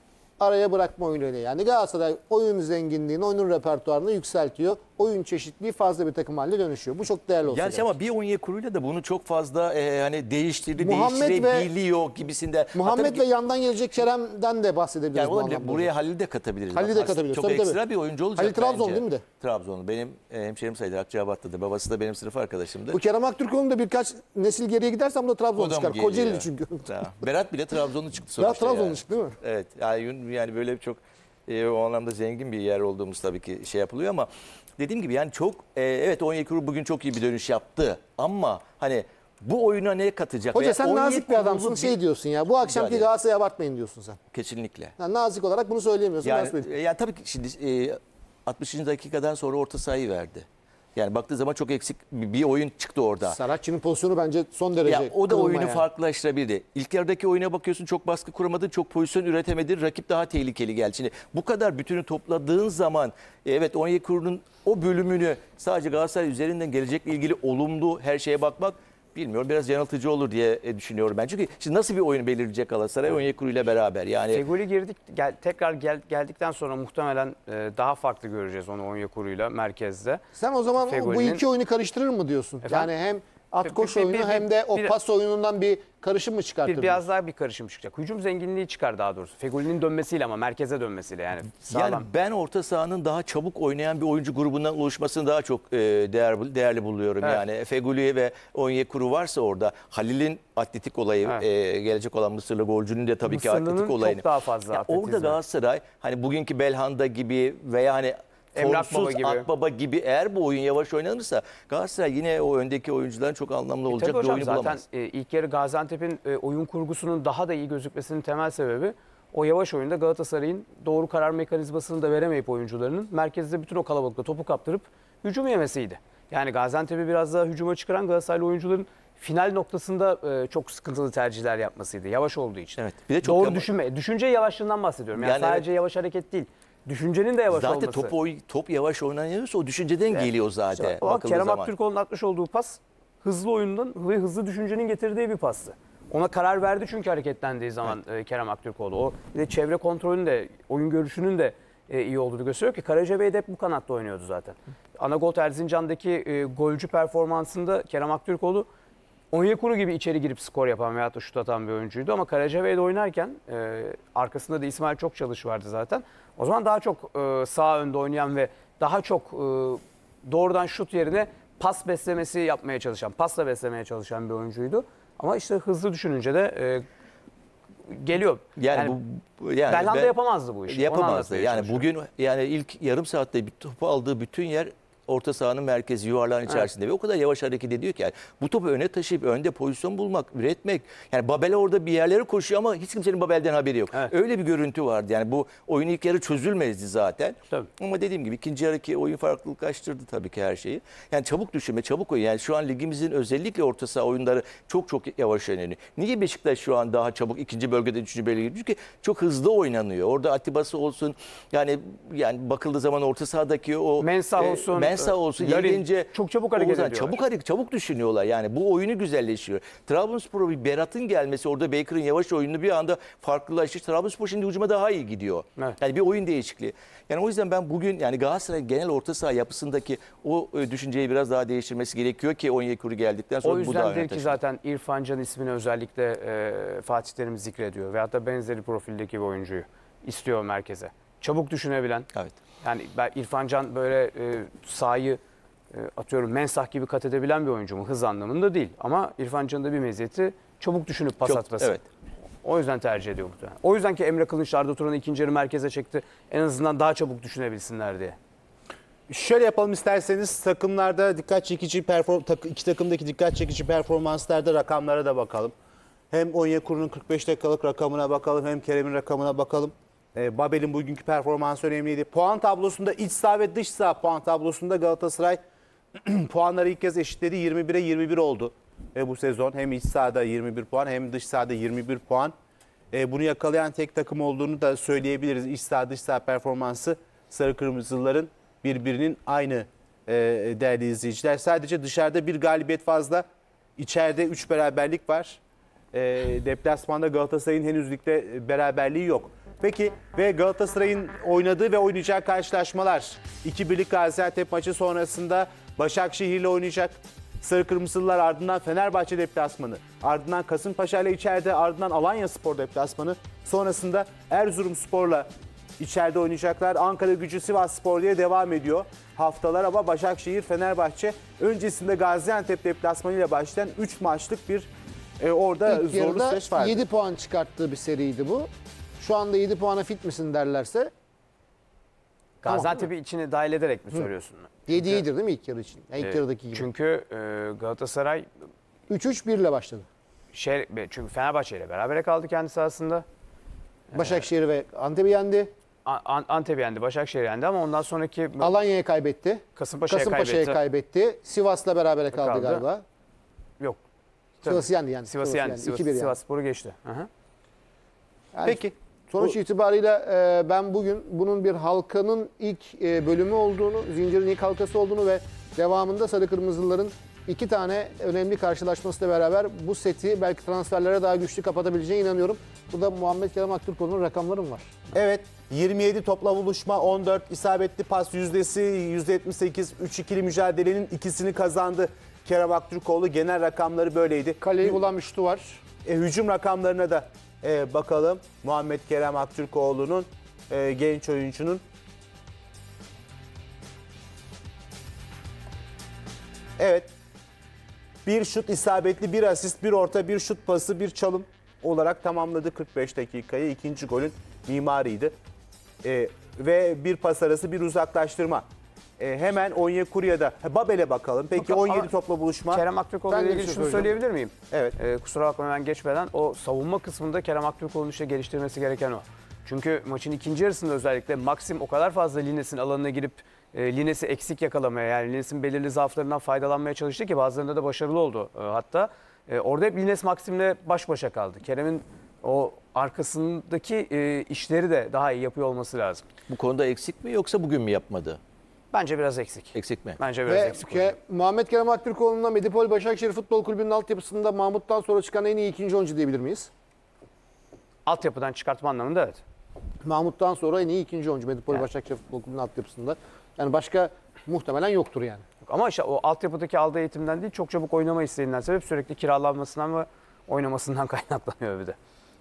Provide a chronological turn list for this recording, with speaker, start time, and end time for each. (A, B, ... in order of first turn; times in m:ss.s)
0:00.4-0:07.9 A
0:07.5-0:13.2 B
0:10.8-0:11.7 A
0:12.7-0:15.9 A
0:15.1-0:23.0 B
0:16.7-0:17.8 A
0:18.4-0:19.2 A
0:22.9-0:26.9 A
0:25.6-0:42.0 B
0:28.4-0:29.4 A
0:40.5-0:44.2 A
0:42.6-0:43.0 B
0:44.3-0:44.9 B
0:45.0-0:46.7 A
0:46.2-0:53.4 B
0:53.2-0:55.9 A
0:54.8-1:14.4 B
1:14.3-1:20.2 C
1:20.4-1:27.1 A
1:20.8-1:21.4 C
1:22.6-1:22.9 C
1:23.6-1:24.9 C
1:26.6-1:32.1 C
1:31.7-1:54.8 B
1:43.2-1:45.4 C
1:48.6-1:49.5 C
1:53.9-2:18.1 C
2:12.8-2:13.7 B
2:15.2-2:15.7 B
2:17.5-2:21.7 B
2:20.2-2:38.7 C
2:39.3-2:56.9 C
2:57.9-2:59.0 C
2:58.6-3:00.1 B
2:59.7-3:01.9 C
3:00.7-3:54.4 B
3:34.0-3:37.2 C
3:53.4-4:02.1 C
4:02.6-4:05.2 C
4:05.7-4:11.8 C
4:11.2-4:11.8 B
4:12.4-4:18.2 C
4:19.1-4:25.5 D
4:26.1-4:35.4 D
4:36.0-4:42.3 D
4:42.9-4:53.2 D
4:53.8-4:55.4 D
4:55.9-5:15.3 D
5:15.8-5:26.8 D
5:25.7-5:30.9 A
5:32.4-5:35.0 C
5:32.4-5:32.9 A
5:34.7-5:36.7 A
5:36.0-5:38.3 C
5:38.9-5:39.9 A
5:40.3-5:43.1 C
5:43.9-5:44.3 C
5:43.9-5:45.5 A
5:45.8-5:48.6 C
5:48.4-5:52.8 A
5:49.6-5:50.6 C
5:52.1-5:52.6 C
5:54.4-5:57.1 C
5:54.4-5:56.2 A
5:58.3-6:14.7 A
5:58.4-5:59.4 D
6:14.9-6:24.8 D
6:24.4-6:25.6 A
6:25.8-6:31.6 D
6:36.6-6:36.9 D
6:38.1-6:45.1 D
6:45.8-6:48.4 D
6:49.0-6:52.6 D
6:51.4-6:51.9 C
6:52.5-7:16.0 C
6:53.1-6:53.9 A
7:16.3-7:18.2 B
7:18.7-7:21.0 C
7:19.5-7:20.0 B
7:20.3-7:26.5 A
7:27.9-7:29.2 C
7:29.8-7:35.2 A
7:35.5-7:41.8 C